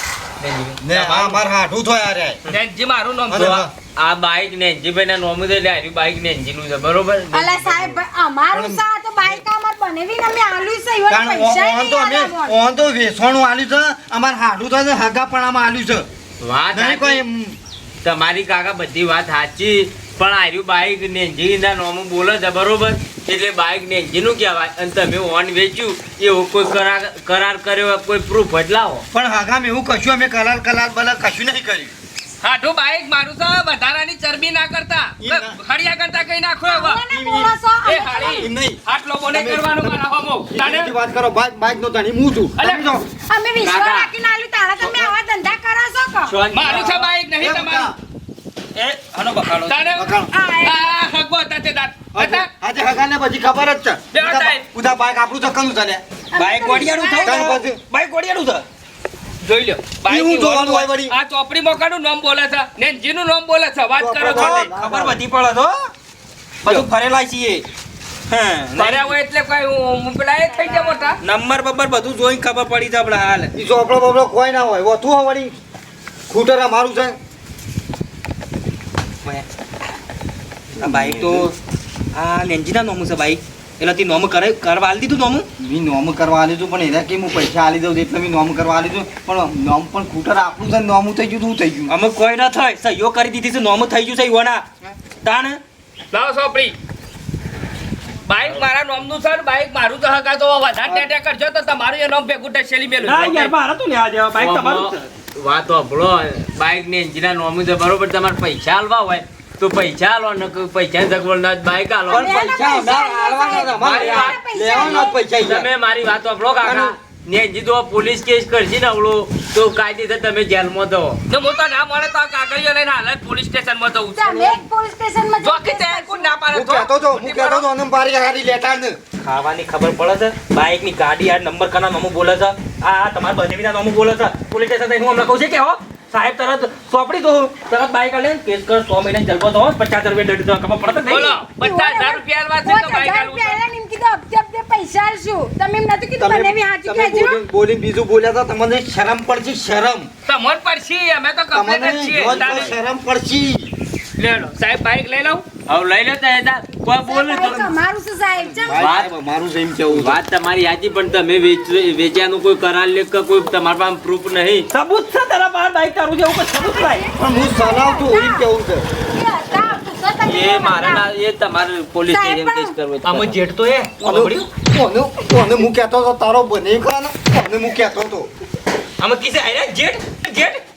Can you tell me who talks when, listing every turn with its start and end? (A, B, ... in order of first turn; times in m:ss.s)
0:00.4-0:00.8 A
0:00.8-0:02.4 B
0:02.5-0:03.6 C
0:03.3-0:03.7 B
0:04.0-0:08.0 A
0:07.3-0:12.6 D
0:08.5-0:09.4 B
0:11.1-0:16.1 B
0:16.4-0:17.2 A
0:16.7-0:17.6 B
0:18.0-0:29.0 A
0:29.1-0:31.9 B
0:32.4-0:37.0 C
0:35.2-0:35.6 B
0:36.6-0:38.5 D
0:37.1-0:37.5 B
0:37.8-0:40.9 C
0:38.2-0:38.8 B
0:39.3-0:40.0 B
0:40.5-0:43.0 B
0:42.6-0:42.8 C
0:43.3-0:46.4 D
0:43.6-0:44.1 A
0:46.3-0:47.1 A
0:46.5-0:47.9 C
0:46.7-0:47.9 B
0:48.7-0:49.8 E
0:49.6-0:50.1 C
0:49.9-0:50.3 B
0:50.3-0:50.9 D
0:50.6-0:52.5 C
0:52.1-0:56.0 B
0:54.1-0:54.6 C
0:56.3-0:57.5 D
0:56.4-0:58.6 E
0:57.2-0:57.8 B
0:59.4-1:04.7 C
1:00.1-1:01.1 B
1:04.0-1:05.2 B
1:04.2-1:05.9 E
1:06.6-1:07.6 E
1:08.3-1:09.1 E
1:08.8-1:11.2 C
1:10.6-1:11.1 D
1:11.2-1:13.5 E
1:13.5-1:15.5 B
1:16.3-1:17.2 B
1:20.8-1:21.5 E
1:20.8-1:21.5 B
1:22.1-1:25.5 E
1:25.6-1:31.9 B
1:31.9-1:34.6 E
1:35.2-1:35.6 E
1:36.1-1:36.8 C
1:38.3-1:43.5 C
1:43.0-1:45.1 E
1:44.4-1:52.3 A
1:52.1-1:55.7 B
1:52.1-1:55.2 D
1:53.8-1:54.3 C
1:53.8-2:01.2 A
1:56.6-1:56.9 B
2:01.3-2:04.6 C
2:04.1-2:06.3 D
2:05.4-2:07.6 C
2:06.5-2:09.0 B
2:09.2-2:21.4 E
2:21.1-2:23.6 C
2:21.6-2:27.4 D
2:26.2-2:30.1 B
2:30.3-2:32.8 C
2:31.5-2:33.7 B
2:34.2-2:35.4 C
2:35.7-2:37.7 A
2:37.0-2:38.8 D
2:38.4-2:40.2 B
2:38.7-2:39.1 A
2:39.9-2:44.7 A
2:44.7-2:47.1 E
2:46.6-2:48.5 D
2:47.2-2:48.9 B
2:49.1-2:51.1 D
2:50.2-2:53.4 A
2:52.1-2:52.7 D
2:53.0-2:54.5 E
2:54.0-2:58.3 B
2:59.0-3:00.6 E